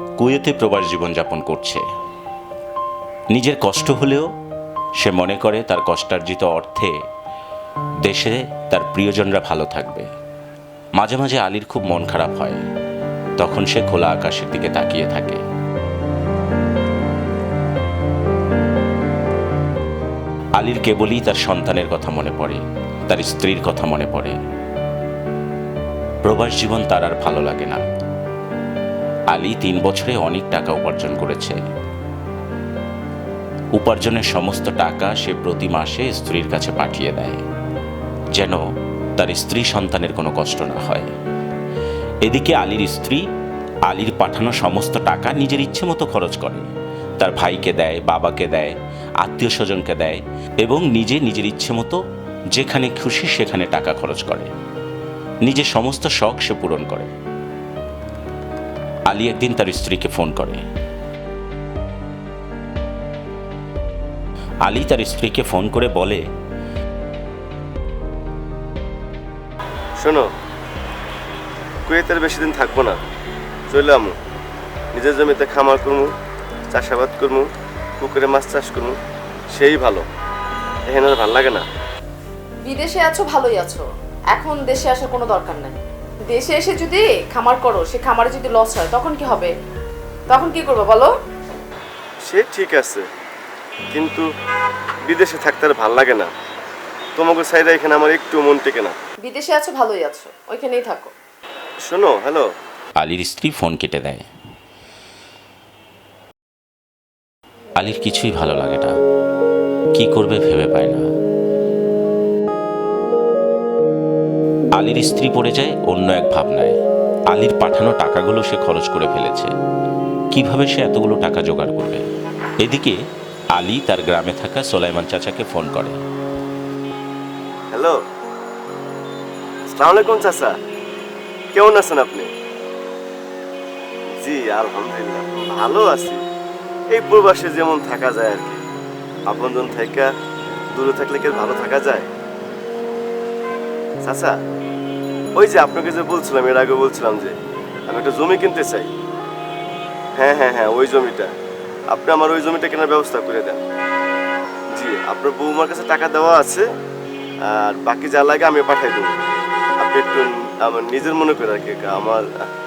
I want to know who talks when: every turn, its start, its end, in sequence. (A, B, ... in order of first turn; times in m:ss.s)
0:00.2-0:01.8 A
0:03.3-0:04.3 A
0:05.0-0:06.9 A
0:08.0-0:10.1 A
0:11.0-0:12.6 A
0:13.4-0:15.4 A
0:20.6-0:24.4 A
0:26.2-0:27.8 A
0:29.3-0:31.6 A
0:33.7-0:37.4 A
0:38.3-0:38.6 A
0:39.2-0:41.1 A
0:42.2-0:43.2 A
0:43.8-0:52.0 A
0:52.5-0:54.5 A
0:55.4-0:57.1 A
0:59.1-1:00.6 A
1:04.6-1:06.2 A
1:10.0-1:10.3 B
1:11.8-1:13.0 B
1:13.7-1:14.1 B
1:14.9-1:16.1 B
1:16.7-1:17.5 B
1:18.0-1:19.0 B
1:19.5-1:20.0 B
1:20.9-1:21.6 B
1:22.6-1:25.8 C
1:26.3-1:29.5 C
1:30.3-1:31.1 C
1:32.2-1:33.0 B
1:33.9-1:34.2 B
1:35.0-1:36.3 B
1:37.2-1:38.9 B
1:39.2-1:41.1 C
1:41.8-1:42.4 B
1:43.0-1:44.2 A
1:47.8-1:48.9 A
1:49.9-1:51.0 A
1:54.7-1:56.8 A
1:57.3-1:59.5 A
2:00.3-2:02.0 A
2:02.6-2:03.0 A
2:03.5-2:06.0 A
2:09.7-2:10.5 B
2:11.5-2:12.3 B
2:14.2-2:16.2 B
2:16.9-2:18.6 B
2:19.3-2:20.1 B
2:20.7-2:22.1 B
2:24.0-2:24.3 B
2:25.4-2:27.3 B
2:27.9-2:28.9 B
2:30.2-2:31.3 B
2:31.9-2:33.6 B
2:34.7-2:36.6 B
2:37.5-2:39.1 B
2:39.8-2:42.2 B